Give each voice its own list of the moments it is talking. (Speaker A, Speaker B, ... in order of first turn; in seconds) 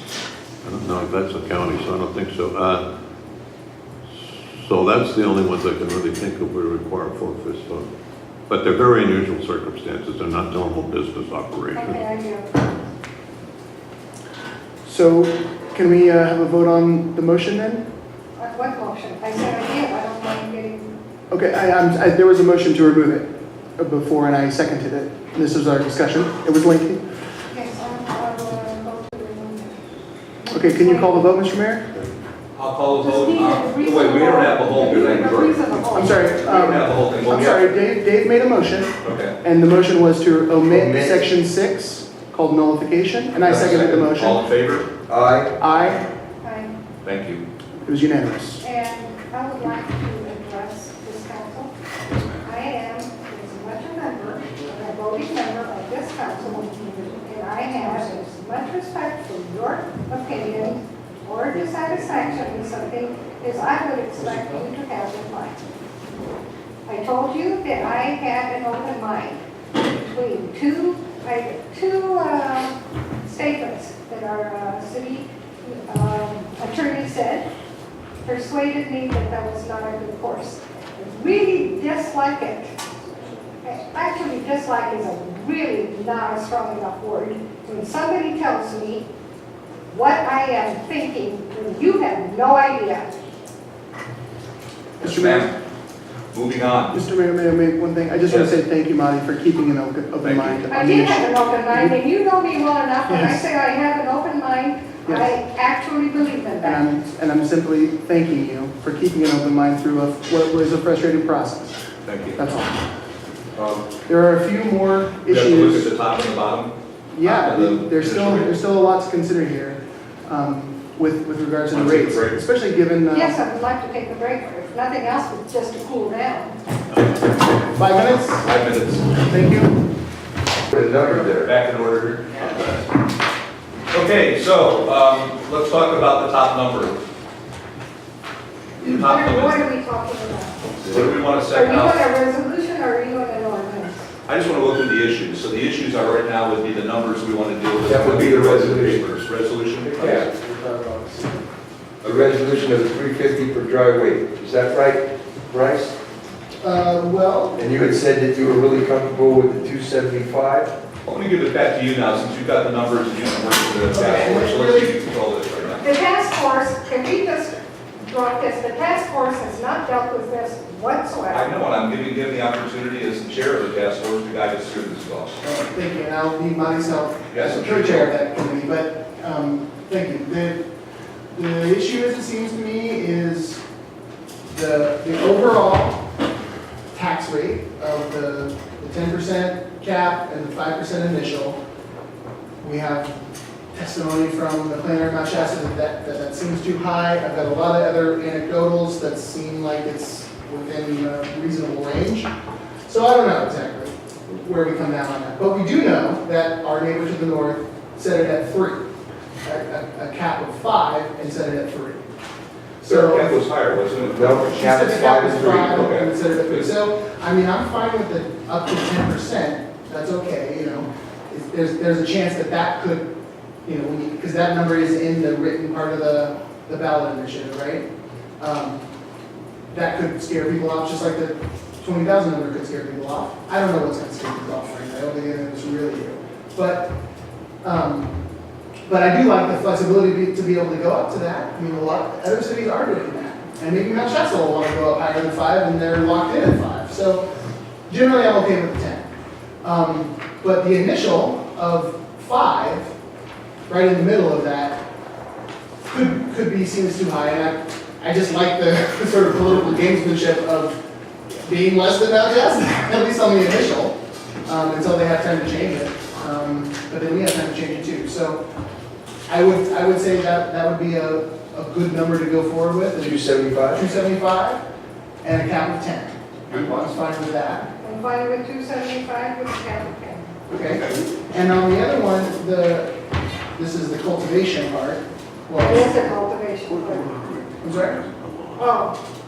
Speaker A: 0.6-2.9, 4.1-7.9, 8.5-12.0, 287.0-288.6
Speaker B: 11.8-12.5, 18.4-20.9, 27.5-29.8, 30.4-31.3, 33.0-36.4, 46.4-46.7, 48.6-51.7, 52.4-65.6, 66.9-77.5, 78.2-82.8, 83.6-89.1, 89.9-93.1, 100.7-106.9, 123.1-126.6, 138.8-140.7, 141.5-144.1, 165.8-171.5, 277.8-280.3, 285.6-287.1, 288.6-289.0
Speaker C: 14.8-17.9, 21.3-27.0, 30.5-31.9, 35.9-44.4, 45.6-46.0, 47.9-48.6, 95.0-95.5, 96.9-102.0, 103.1-103.4, 105.0-105.3, 106.6-111.8, 112.4-112.8, 114.1-115.9, 117.1-123.4, 127.7-128.5, 129.2-129.8, 156.6-158.0, 163.9-165.0, 175.4-180.7, 181.3-183.6, 184.5-186.1, 186.9-191.6, 192.6-193.2, 193.7-202.3, 202.8-208.9, 209.4-212.0, 212.8-213.4, 214.5-223.1, 223.7-227.9, 228.4-228.8, 229.7-237.0, 237.6-238.2, 238.9-247.3, 247.9-249.1, 249.6-252.9, 253.7-254.8, 255.9-268.4, 269.3-274.6, 275.2-277.7, 280.5-283.0, 283.6-286.1, 287.6-288.0
Speaker D: 32.6-37.6, 39.0-39.4, 43.4-45.0, 47.0-47.4, 52.1-52.4, 95.0-95.6, 96.3-97.0, 100.2-100.6, 112.0-112.4, 115.3-118.5, 121.7-122.4, 128.4-129.1, 131.1-132.8, 133.9-137.0, 138.8-139.6, 140.9-142.1, 144.3-150.3, 161.1-165.8, 171.3-175.4, 177.3-178.1, 212.9-214.7, 215.6-216.7
Speaker E: 40.7-41.3, 45.1-45.5, 130.7-131.5, 140.8-141.2, 147.8-149.1, 150.0-151.4, 152.0-156.0, 157.6-160.8, 214.0-216.0, 273.0-273.9